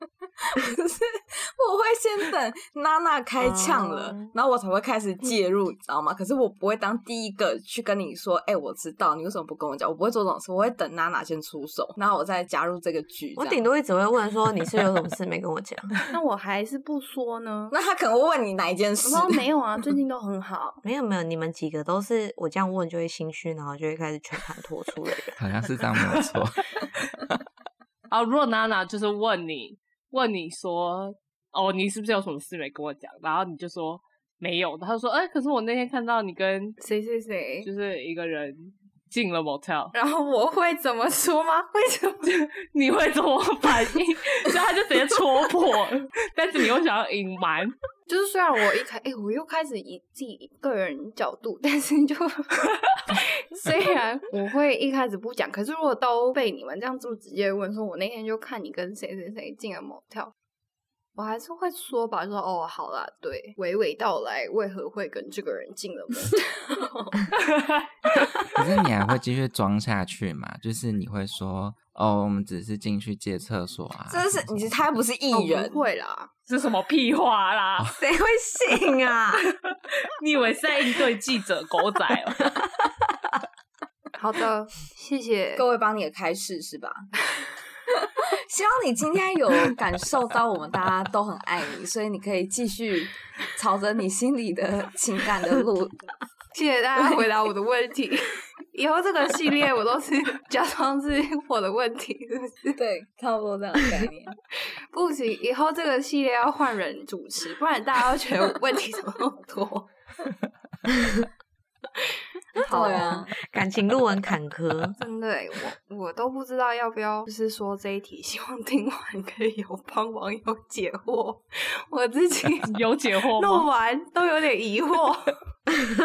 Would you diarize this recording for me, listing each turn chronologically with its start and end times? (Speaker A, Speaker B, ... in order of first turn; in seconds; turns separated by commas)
Speaker A: 0.5-13.6, Speaker B: 3.5-4.1, Speaker B: 13.4-15.9, Speaker C: 16.1-17.7, Speaker A: 17.7-19.4, Speaker C: 19.0-20.8, Speaker B: 20.8-25.4, Speaker D: 25.4-26.8, Speaker E: 28.1-36.8, Speaker C: 36.8-37.7, Speaker E: 37.6-39.9, Speaker C: 39.9-42.5, Speaker E: 42.6-47.7, Speaker C: 48.1-60.3, Speaker C: 61.1-67.3, Speaker E: 67.4-67.9, Speaker D: 68.5-74.5, Speaker A: 74.1-75.8, Speaker C: 75.3-76.3, Speaker E: 76.5-77.9, Speaker B: 78.0-79.4, Speaker E: 79.7-82.4, Speaker B: 82.6-82.9, Speaker C: 84.1-85.6, Speaker A: 85.5-87.1, Speaker A: 88.0-96.0, Speaker C: 96.5-102.8, Speaker A: 102.8-104.3, Speaker C: 104.9-109.9, Speaker B: 110.9-111.3, Speaker C: 112.6-113.2, Speaker A: 112.7-113.3, Speaker B: 112.7-115.0, Speaker C: 115.0-122.7, Speaker E: 122.7-123.7, Speaker C: 123.3-125.3